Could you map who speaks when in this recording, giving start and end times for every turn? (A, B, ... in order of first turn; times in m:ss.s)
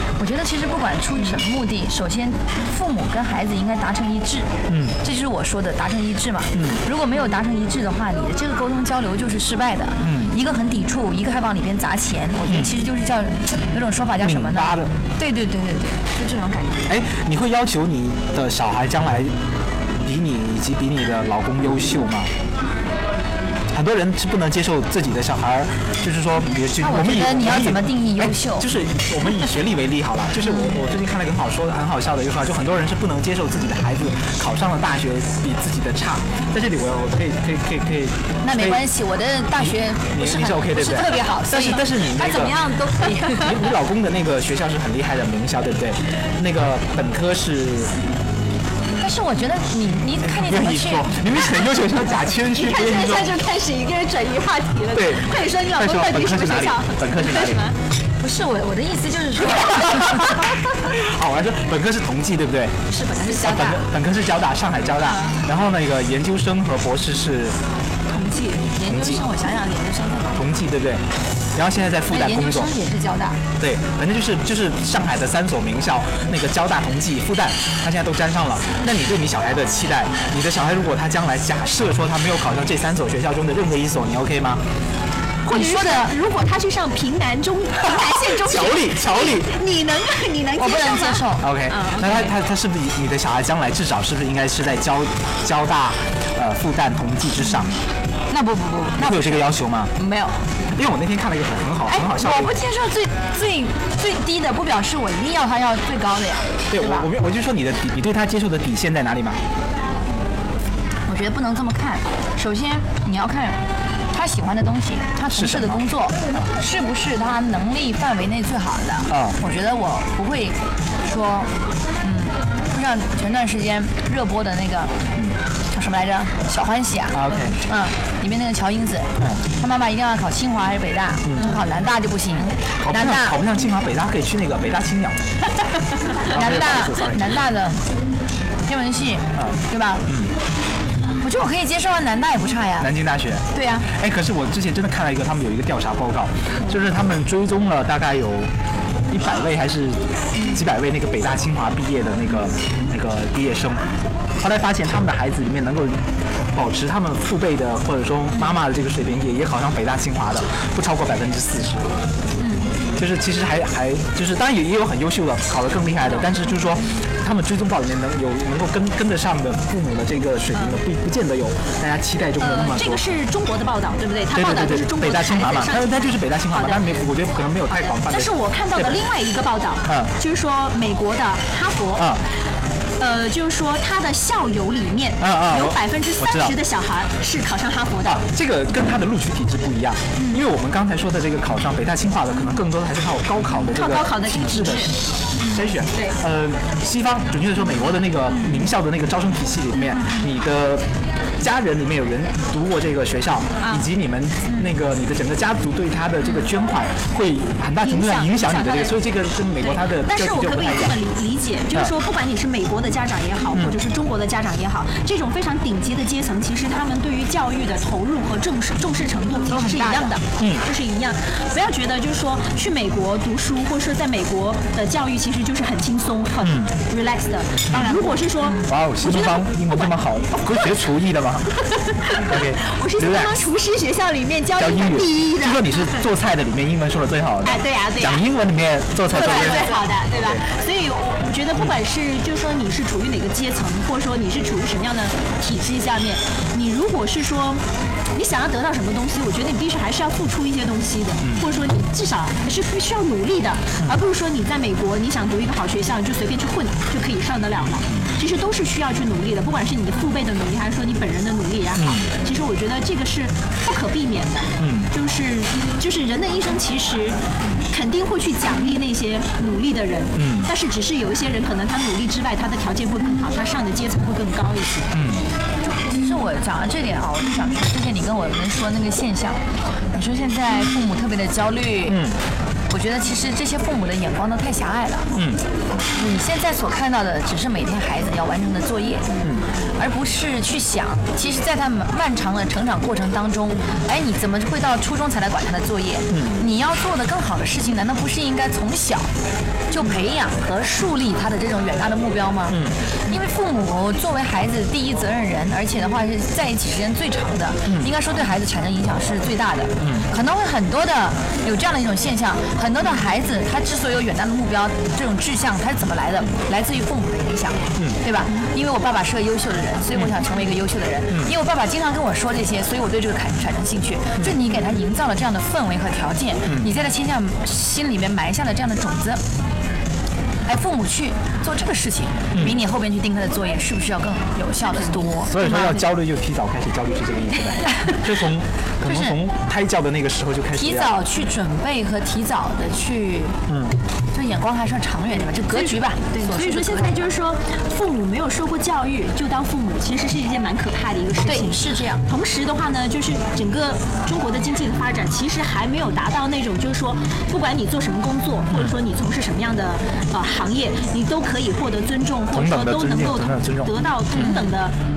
0:00.2-0:16.9 A
0:04.7-0:05.0 B
0:06.5-0:06.8 B
0:10.0-0:10.3 B
0:12.5-0:12.7 B
0:14.2-0:14.9 B
0:16.9-0:19.3 B
0:20.0-0:22.3 B
0:23.7-0:38.9 B
0:26.8-0:28.7 A
0:38.4-0:43.6 A
0:39.6-0:47.9 B
0:49.0-0:51.3 A
0:50.2-0:53.4 B
0:52.4-0:57.8 C
0:54.9-0:57.7 B
0:58.2-1:00.4 A
0:59.7-1:07.6 B
1:02.9-1:03.8 A
1:08.1-1:08.7 C
1:08.7-1:10.4 A
1:08.9-1:09.2 B
1:10.4-1:12.7 B
1:12.1-1:13.4 A
1:13.6-1:24.6 B
1:25.5-1:32.3 C
1:25.5-1:26.1 A
1:28.4-1:29.5 B
1:30.6-1:31.5 A
1:31.4-1:37.8 B
1:38.3-1:40.4 A
1:39.0-1:39.9 B
1:40.7-1:42.6 B
1:41.9-1:47.1 A
1:46.7-1:49.4 B
1:51.1-2:05.0 A
1:55.3-1:56.5 B
1:59.1-1:59.4 B
2:05.7-2:13.4 A
2:07.1-2:07.6 B
2:11.2-2:11.6 B
2:12.8-2:15.2 B
2:16.2-2:17.4 B
2:16.2-2:17.9 A
2:18.7-2:20.1 A
2:19.4-2:20.3 B
2:21.2-2:22.9 A
2:22.8-2:28.5 B
2:23.6-2:23.9 A
2:29.1-2:33.9 B
2:34.4-2:42.0 B
2:42.4-2:42.8 C
2:43.0-2:53.1 B
2:52.4-2:56.9 C
2:54.3-2:59.0 B
2:57.7-3:02.2 C
2:59.8-3:00.1 B
3:02.0-3:02.2 B
3:03.0-3:08.2 C
3:05.2-3:06.6 B
3:08.0-3:31.0 B
3:13.7-3:16.2 C
3:18.4-3:18.7 C
3:23.6-3:23.9 C
3:27.8-3:29.0 C
3:29.6-3:50.0 C
3:33.5-3:33.8 B
3:39.5-3:40.2 A
3:40.4-3:40.6 B
3:46.4-3:46.7 B
3:47.7-3:48.1 B
3:48.6-3:53.4 B
3:51.9-3:55.9 C
3:54.6-4:00.4 B
3:57.4-3:58.2 C
3:59.1-4:07.6 C
4:08.1-4:35.0 C
4:11.2-4:11.5 B
4:21.8-4:22.1 B
4:24.6-4:24.9 B
4:30.2-4:30.5 B
4:34.9-4:35.2 B
4:35.6-4:42.0 A
4:41.9-4:42.2 B
4:42.7-4:45.1 A
4:45.1-4:45.4 B
4:45.9-4:49.2 A
4:49.8-4:59.1 A
4:56.1-4:56.4 B
4:59.7-5:29.2 A
5:02.5-5:02.8 B
5:07.7-5:07.9 B
5:09.8-5:10.1 B
5:30.5-5:35.8 A
5:32.3-5:32.6 B
5:35.2-5:41.0 B
5:38.8-5:39.2 A
5:40.6-5:43.4 A
5:43.5-5:43.8 B
5:44.1-5:47.0 A
5:45.5-6:04.8 C
5:51.2-5:52.0 A
5:58.5-5:58.8 B
6:02.3-6:03.8 B
6:04.2-6:04.5 A